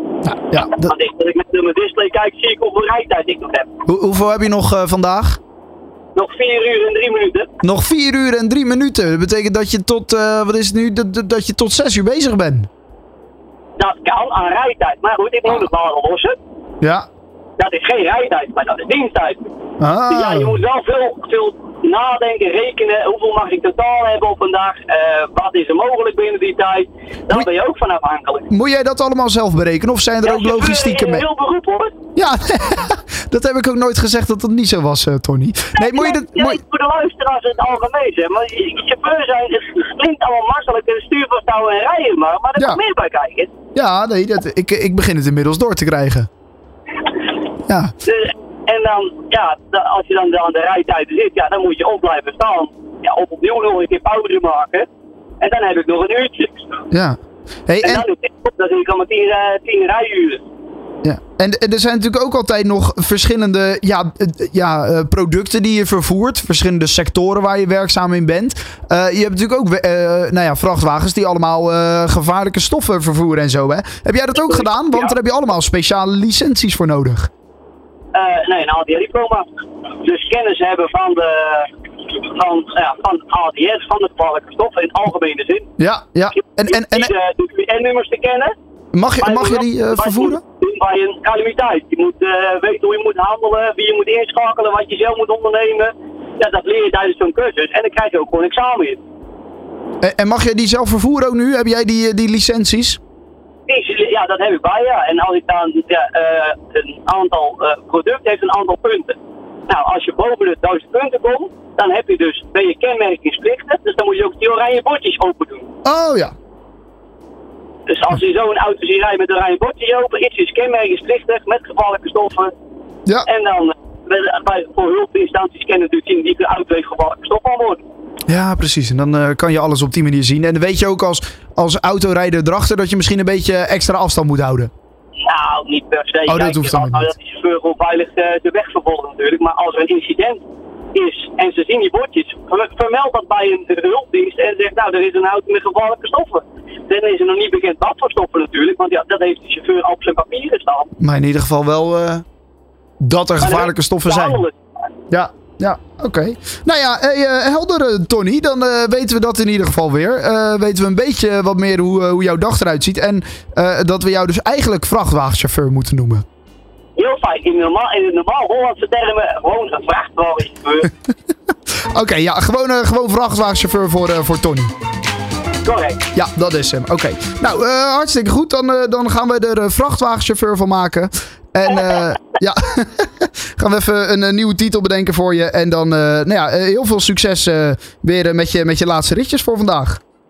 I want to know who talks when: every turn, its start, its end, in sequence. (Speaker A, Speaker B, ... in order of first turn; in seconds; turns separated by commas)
Speaker A: 0.2-0.9, Speaker B: 0.7-3.7, Speaker A: 3.9-5.4, Speaker B: 6.2-7.5, Speaker A: 7.6-12.7, Speaker B: 13.8-16.4, Speaker B: 17.6-19.4, Speaker A: 19.8-20.6, Speaker B: 20.1-28.5, Speaker A: 28.5-31.2, Speaker B: 30.2-31.9, Speaker A: 32.2-36.6, Speaker B: 35.8-43.5, Speaker A: 43.8-46.3, Speaker A: 47.7-47.9, Speaker B: 48.0-54.9, Speaker B: 55.4-56.7, Speaker A: 56.9-58.0, Speaker B: 57.8-60.5, Speaker A: 61.0-77.3, Speaker B: 74.5-75.2, Speaker B: 78.1-79.5, Speaker B: 80.0-85.7, Speaker A: 85.8-87.1, Speaker B: 86.3-88.5, Speaker A: 88.9-90.4, Speaker B: 89.2-99.0, Speaker A: 100.0-103.0, Speaker B: 103.7-115.7, Speaker A: 115.8-116.3, Speaker B: 117.9-122.5, Speaker B: 123.3-127.8, Speaker A: 128.3-134.7, Speaker B: 135.2-150.9, Speaker A: 136.3-137.1, Speaker A: 151.0-152.2, Speaker A: 153.0-154.4, Speaker B: 153.4-154.6, Speaker A: 155.1-166.2, Speaker B: 167.0-170.9, Speaker A: 171.9-174.7, Speaker B: 175.6-176.0, Speaker A: 176.1-190.0